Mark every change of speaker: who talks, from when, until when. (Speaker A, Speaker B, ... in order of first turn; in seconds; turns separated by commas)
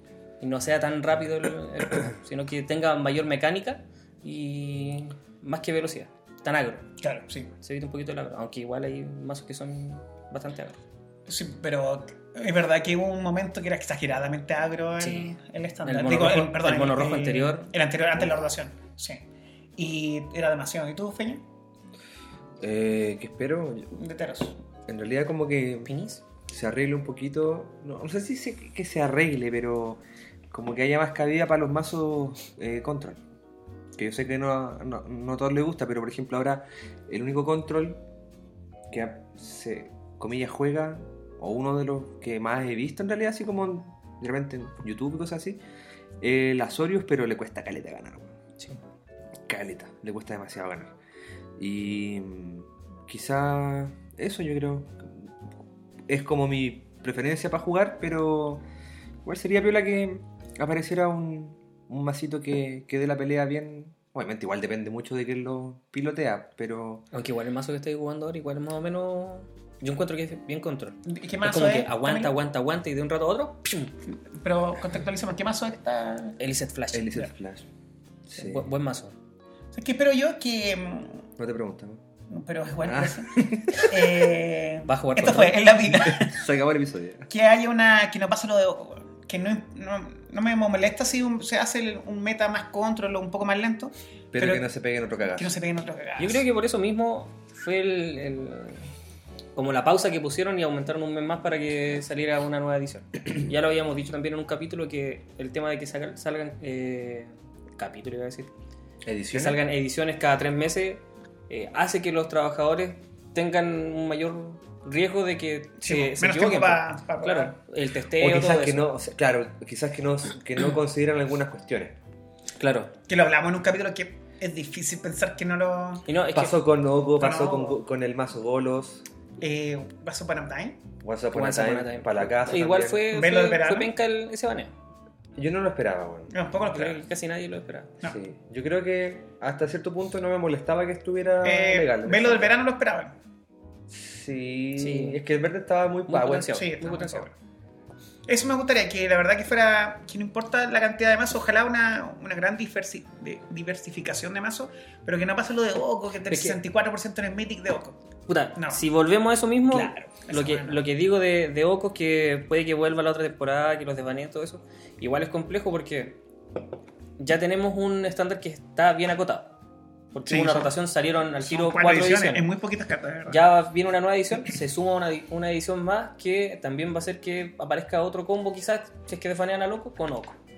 Speaker A: 0.4-6.8, Speaker B: 7.0-7.5, Speaker A: 7.6-10.8, Speaker B: 11.3-19.2, Speaker A: 15.0-15.3, Speaker A: 15.8-17.7, Speaker B: 19.8-21.4, Speaker C: 22.6-23.9, Speaker B: 23.9-24.6, Speaker C: 24.9-25.9, Speaker A: 25.9-26.2, Speaker C: 26.5-33.2, Speaker C: 34.0-38.0, Speaker C: 38.9-45.6, Speaker C: 46.2-48.3, Speaker C: 49.5-50.9, Speaker C: 51.6-55.3, Speaker C: 56.1-58.6, Speaker C: 59.2-67.0, Speaker A: 67.1-73.9, Speaker B: 71.0-72.3, Speaker B: 74.3-76.4, Speaker A: 76.4-77.2, Speaker C: 76.9-77.7, Speaker C: 78.3-78.6, Speaker A: 78.4-79.1, Speaker B: 79.7-81.2, Speaker C: 81.4-82.0, Speaker B: 82.3-86.4, Speaker C: 82.8-84.3, Speaker A: 84.8-85.6, Speaker C: 85.9-87.3, Speaker B: 87.3-94.6, Speaker C: 94.3-95.5, Speaker B: 95.3-96.4, Speaker A: 96.2-98.8, Speaker A: 99.5-108.5, Speaker C: 109.0-109.6, Speaker A: 109.3-118.8, Speaker B: 115.8-117.5, Speaker C: 118.2-122.0, Speaker A: 122.6-122.9, Speaker B: 123.1-126.0, Speaker A: 126.1-126.6, Speaker C: 126.3-129.0, Speaker B: 127.2-127.8, Speaker B: 129.4-130.8, Speaker C: 131.0-133.0, Speaker A: 131.3-134.7, Speaker B: 133.1-133.9, Speaker C: 135.3-136.3, Speaker B: 136.3-137.0, Speaker A: 136.7-137.9, Speaker C: 138.0-142.5, Speaker B: 141.4-143.1, Speaker C: 143.9-146.6, Speaker A: 144.8-145.2, Speaker A: 146.1-147.3, Speaker B: 146.5-147.3, Speaker B: 148.3-158.0, Speaker A: 156.3-156.6, Speaker A: 158.3-166.2, Speaker B: 158.6-158.8, Speaker C: 159.7-160.1, Speaker B: 160.1-160.8, Speaker A: 167.2-169.5, Speaker A: 170.1-172.4, Speaker B: 170.3-170.7, Speaker B: 171.4-173.4, Speaker A: 173.3-180.4